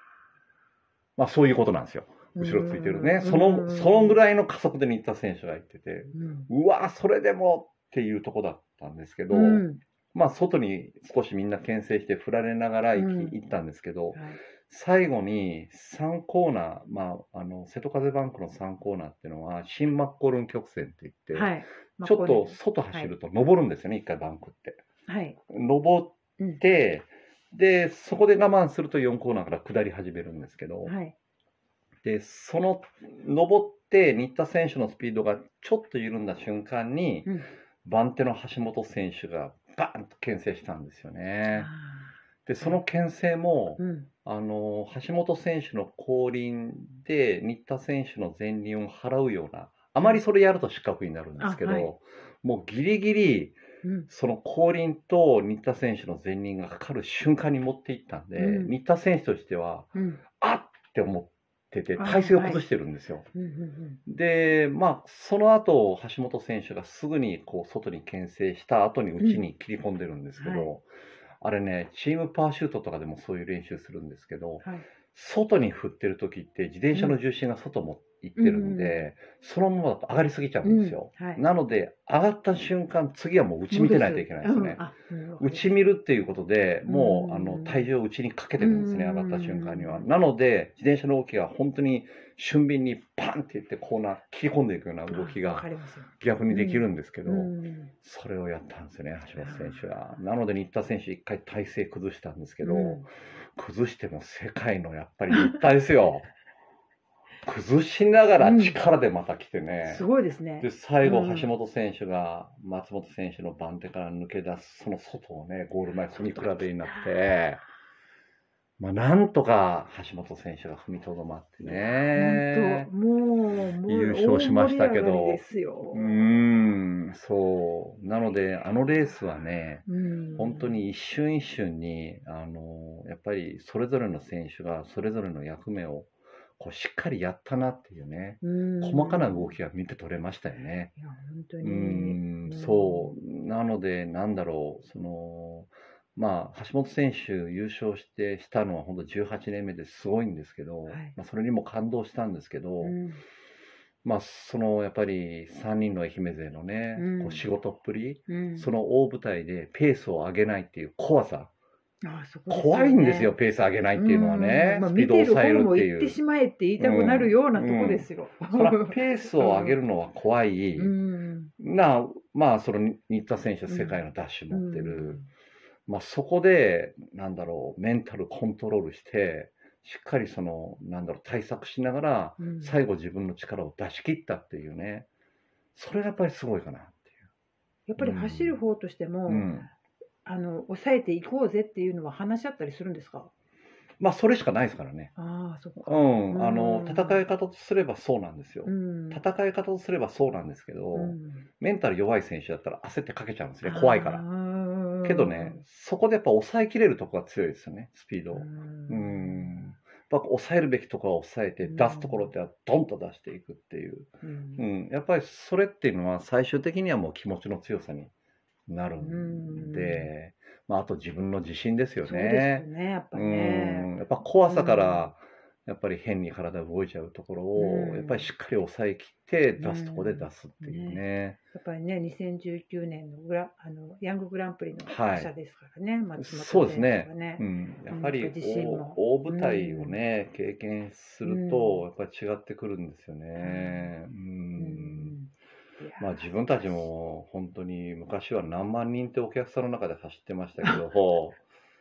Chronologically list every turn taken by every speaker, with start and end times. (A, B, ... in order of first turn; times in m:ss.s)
0:01.2-0:24.8 A
0:02.4-0:04.2 B
0:06.1-0:06.5 B
0:09.3-0:09.8 B
0:13.0-0:13.4 B
0:21.3-0:23.1 B
0:25.1-0:25.4 B
0:25.5-0:30.9 A
0:30.9-0:31.2 B
0:32.0-0:41.7 A
0:41.5-0:42.8 B
0:42.5-1:03.3 A
0:43.8-0:44.1 B
0:51.4-0:51.9 B
0:53.8-0:54.1 B
0:58.4-0:58.8 B
1:00.0-1:00.2 B
1:02.0-1:02.6 B
1:03.4-1:04.0 B
1:04.1-1:10.9 A
1:10.4-1:10.7 B
1:11.4-1:24.8 A
1:18.4-1:19.1 B
1:20.6-1:21.4 B
1:23.7-1:25.8 B
1:25.4-1:35.7 A
1:26.8-1:27.9 B
1:28.6-1:30.1 B
1:35.1-1:37.9 B
1:36.2-1:46.3 A
1:39.4-1:39.8 B
1:42.6-1:43.1 B
1:47.4-1:50.1 A
1:48.4-1:48.8 B
1:49.8-1:51.5 B
1:50.6-1:57.6 A
1:56.4-1:57.2 B
1:58.8-2:02.9 A
2:01.6-2:06.2 B
2:03.9-2:20.9 A
2:09.9-2:10.8 B
2:18.4-2:19.5 B
2:21.0-2:23.2 B
2:21.6-2:33.0 A
2:30.9-2:31.1 B
2:32.8-2:33.2 B
2:34.0-2:41.5 A
2:37.0-2:37.4 B
2:38.3-2:38.7 B
2:42.0-2:43.4 B
2:42.5-2:46.2 A
2:44.0-2:49.8 B
2:46.8-2:51.0 A
2:50.8-2:51.5 B
2:51.6-2:55.2 A
2:53.7-2:55.3 B
2:55.9-3:05.1 A
3:02.4-3:02.8 B
3:05.8-3:07.1 A
3:07.9-3:09.5 B
3:08.0-3:08.6 A
3:09.3-3:09.7 A
3:10.2-3:13.3 B
3:14.0-3:15.1 A
3:15.2-3:17.2 B
3:15.8-3:24.2 A
3:18.6-3:19.2 B
3:20.9-3:21.5 B
3:23.6-3:25.6 B
3:25.0-3:38.1 A
3:28.3-3:29.7 B
3:31.6-3:32.3 B
3:34.2-3:34.7 B
3:38.7-3:51.4 A
3:39.0-3:40.1 B
3:42.0-3:43.9 B
3:44.4-3:45.1 B
3:47.6-3:48.3 B
3:49.6-3:51.0 B
3:51.5-4:00.0 B
3:54.8-3:55.3 A
3:56.2-4:05.2 A
4:01.2-4:01.9 B
4:03.4-4:03.9 B
4:04.6-4:06.9 B
4:06.0-4:11.4 A